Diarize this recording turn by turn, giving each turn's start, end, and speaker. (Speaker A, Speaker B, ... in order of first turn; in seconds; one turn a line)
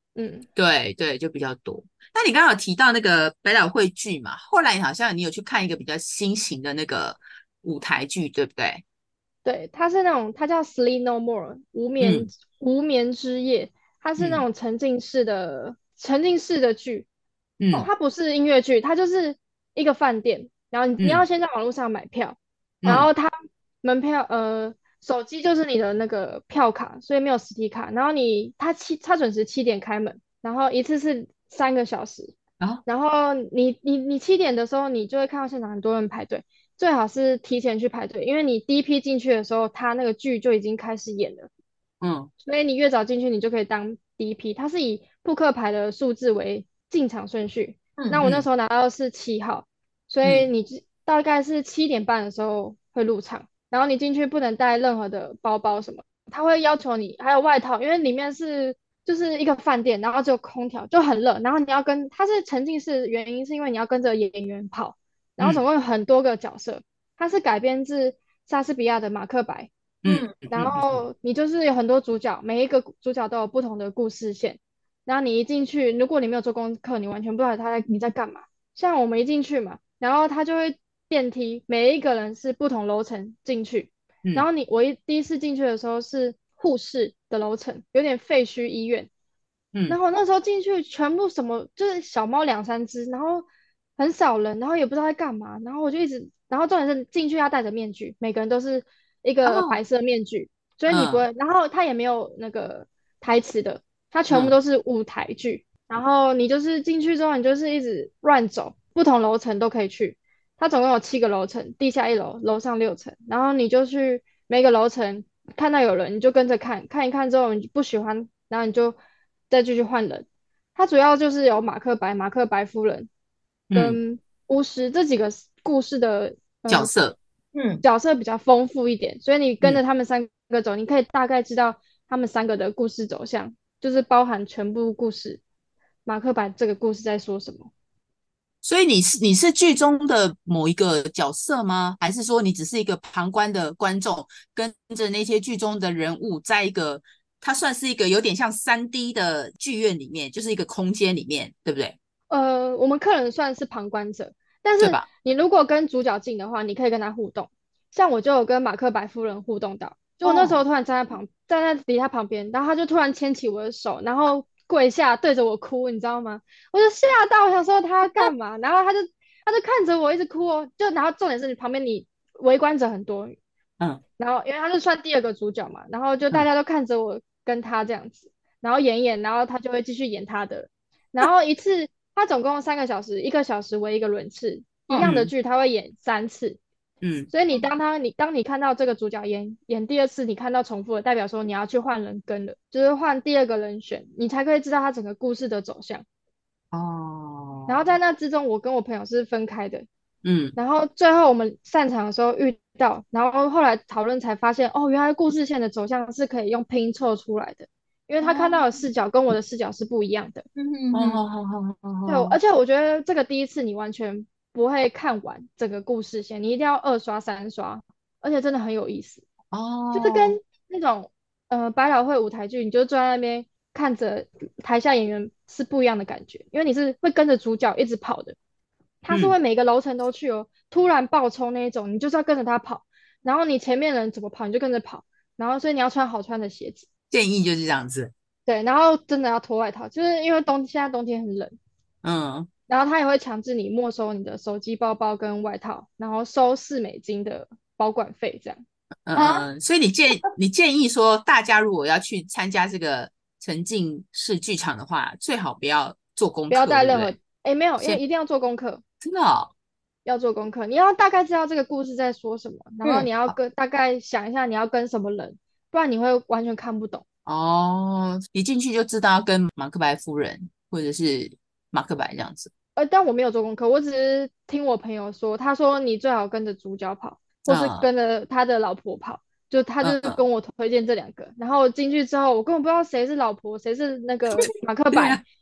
Speaker A: 0.1-0.5
Speaker B: 0.6-8.8
Speaker A: 9.4-17.1
Speaker B: 12.0-12.3
Speaker B: 14.2-14.4
Speaker B: 17.6-17.9
Speaker A: 17.7-23.3
Speaker B: 22.8-23.1
Speaker A: 23.8-32.3
Speaker A: 32.9-41.5
Speaker B: 42.0-42.3
Speaker A: 42.4-69.7
Speaker B: 50.2-50.5
Speaker B: 70.0-71.0
Speaker C: 70.0-70.3
Speaker A: 70.5-89.1
Speaker B: 89.7-90.0
Speaker A: 89.9-119.0
Speaker C: 99.4-99.8
Speaker B: 100.9-101.2
Speaker B: 104.3-104.5
Speaker A: 119.5-123.1
Speaker B: 123.7-124.0
Speaker A: 123.7-126.9
Speaker B: 126.7-127.2
Speaker C: 127.5-127.8
Speaker A: 127.8-135.4
Speaker A: 136.1-137.7
Speaker B: 138.6-151.9
Speaker A: 152.3-173.4
Speaker B: 154.8-155.1
Speaker C: 160.2-160.6
Speaker A: 174.2-186.6
Speaker B: 185.0-185.3
Speaker B: 187.0-187.3
Speaker A: 187.3-196.0
Speaker B: 196.7-197.8
Speaker A: 197.7-199.8
Speaker B: 200.2-200.6
Speaker A: 200.6-210.4
Speaker C: 208.2-208.8
Speaker C: 210.6-211.2
Speaker B: 210.9-212.3
Speaker A: 212.1-219.2
Speaker B: 219.5-220.4
Speaker A: 219.9-228.3
Speaker A: 229.0-236.8
Speaker B: 229.1-229.3
Speaker B: 237.1-238.1
Speaker A: 238.5-241.6
Speaker B: 242.0-242.5
Speaker A: 242.7-248.6
Speaker B: 249.1-257.1
Speaker C: 249.2-249.4
Speaker A: 256.5-258.8
Speaker B: 259.0-259.5
Speaker A: 260.0-267.0
Speaker B: 267.2-272.5
Speaker A: 272.8-285.2
Speaker B: 277.4-277.9
Speaker B: 279.8-280.2
Speaker B: 284.4-285.2